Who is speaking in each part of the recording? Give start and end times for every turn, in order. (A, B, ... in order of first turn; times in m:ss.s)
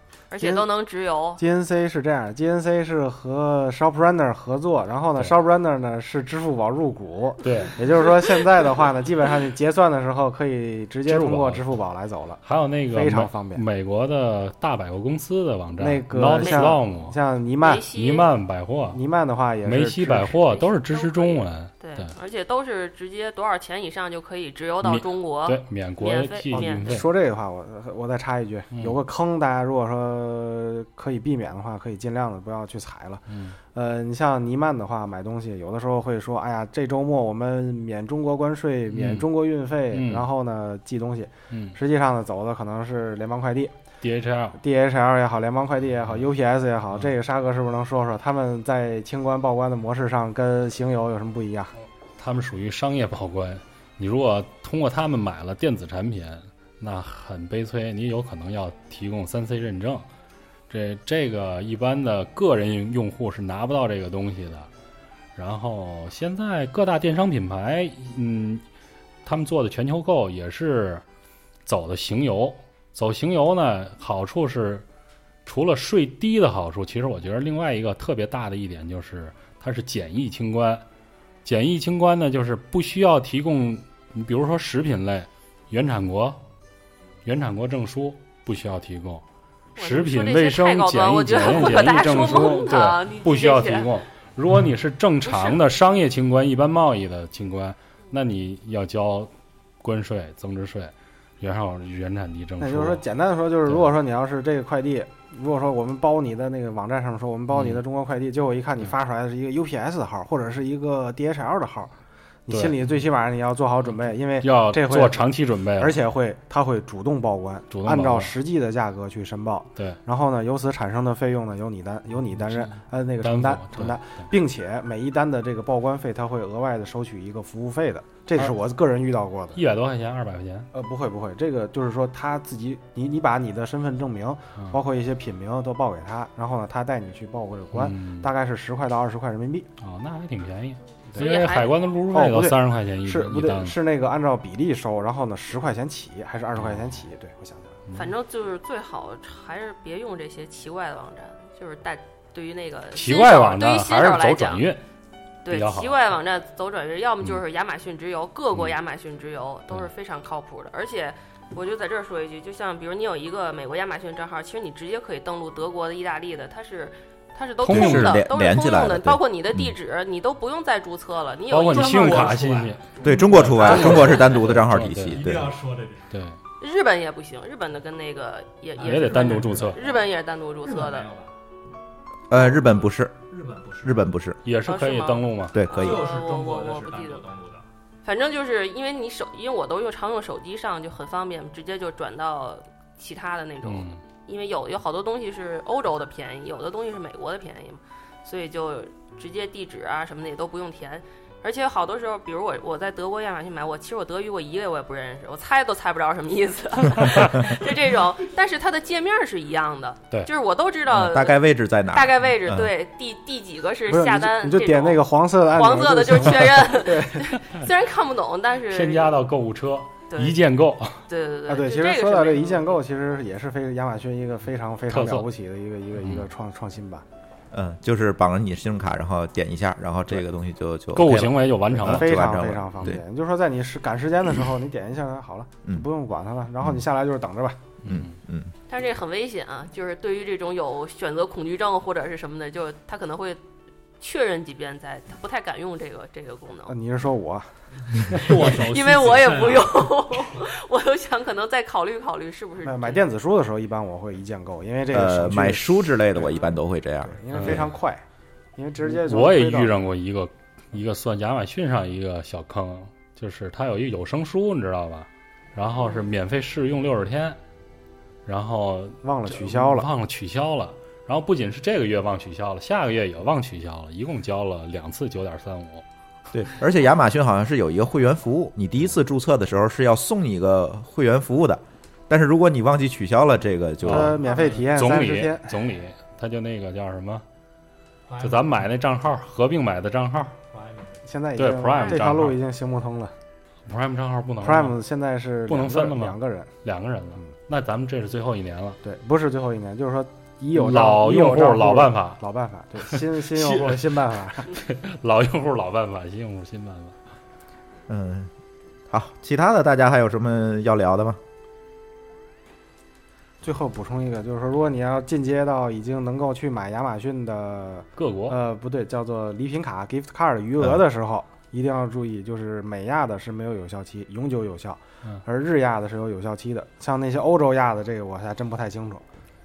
0:00.3-0:01.4 A
0:00.4-0:00.7 B
0:01.4-0:13.6 B
0:07.4-0:08.0 C
0:11.0-0:11.6 C
0:12.4-0:17.2 C
0:15.8-0:17.9 B
0:16.4-0:16.8 A
0:17.6-0:18.3 A
0:17.9-0:19.0 C
0:18.9-0:20.4 B
0:19.6-0:22.1 C
0:20.4-0:26.9 A
0:24.8-0:27.1 C
0:26.5-0:43.7 B
0:28.7-0:29.0 C
0:33.3-0:33.6 C
0:38.9-0:39.3 C
0:39.9-0:40.2 C
0:41.5-0:41.8 C
0:44.0-0:44.6 C
0:44.6-0:51.7 B
0:52.2-1:00.1 C
1:00.7-1:04.7 C
1:05.4-1:08.6 C
1:09.2-1:11.0 C
1:11.6-1:14.8 C
1:15.4-1:20.8 C
1:21.4-1:26.4 C
1:27.2-1:29.2 C
1:29.8-1:33.9 A
1:29.8-1:39.3 C
1:35.2-1:35.6 A
1:39.8-1:43.0 C
1:42.6-1:51.9 B
1:43.6-1:43.9 C
1:47.5-1:47.8 C
1:52.5-2:09.6 B
1:52.5-1:52.8 C
1:53.8-1:56.0 C
1:57.7-1:58.3 C
2:02.4-2:04.0 C
2:09.5-2:10.7 C
2:10.7-2:19.7 B
2:17.7-2:18.3 C
2:19.8-2:23.8 C
2:21.2-2:21.8 A
2:22.1-2:27.8 B
2:26.5-2:27.0 C
2:27.9-2:34.6 A
2:32.9-2:34.8 C
2:35.4-2:52.6 A
2:35.5-2:36.0 C
2:47.6-2:49.7 D
2:47.6-2:48.1 C
2:51.5-2:55.2 C
2:51.7-2:54.4 E
2:53.0-2:55.6 D
2:55.1-2:56.1 E
2:56.1-2:56.4 C
2:56.6-3:01.1 A
2:58.8-3:00.0 E
2:58.8-2:59.8 C
3:00.6-3:01.3 E
3:02.3-3:03.2 D
3:03.3-3:04.1 E
3:03.8-3:04.4 D
3:04.4-3:05.6 C
3:04.6-3:07.3 A
3:05.5-3:06.0 D
3:05.7-3:07.6 E
3:08.0-3:39.2 A
3:13.6-3:14.0 C
3:27.0-3:27.3 C
3:30.9-3:32.7 D
3:33.9-3:37.3 B
3:38.7-3:41.0 C
3:40.1-3:40.4 A
3:41.1-3:42.8 A
3:41.5-3:47.0 B
3:44.9-3:45.3 C
3:46.0-3:46.3 C
3:47.5-3:53.0 D
3:50.9-3:52.2 C
3:51.8-3:57.6 B
3:57.8-3:58.2 C
3:57.8-3:58.5 D
3:58.7-4:03.4 A
4:04.0-4:06.7 A
4:06.7-4:08.1 B
4:08.1-4:13.0 A
4:08.1-4:09.8 E
4:12.6-4:16.5 B
4:14.9-4:17.6 D
4:17.0-4:18.0 B
4:17.3-4:17.7 C
4:18.6-4:19.8 B
4:18.8-4:27.4 C
4:25.8-4:26.1 A
4:28.2-4:35.8 C
4:29.0-4:29.9 B
4:36.3-4:44.2 D
4:43.8-4:47.2 C
4:43.9-4:45.5 B
4:48.1-4:48.6 E
4:48.2-4:50.4 C
4:50.5-4:51.0 E
4:51.0-4:53.1 B
4:51.4-4:52.4 C
4:51.8-4:52.0 A
4:53.6-4:54.8 C
4:54.4-4:56.5 B
4:55.5-4:58.8 C
4:58.8-5:04.6 B
5:00.5-5:02.2 C
5:02.9-5:04.0 C
5:04.5-5:07.0 C
5:07.9-5:08.3 D
5:08.9-5:11.2 D
5:13.4-5:29.0 B
5:18.0-5:18.4 C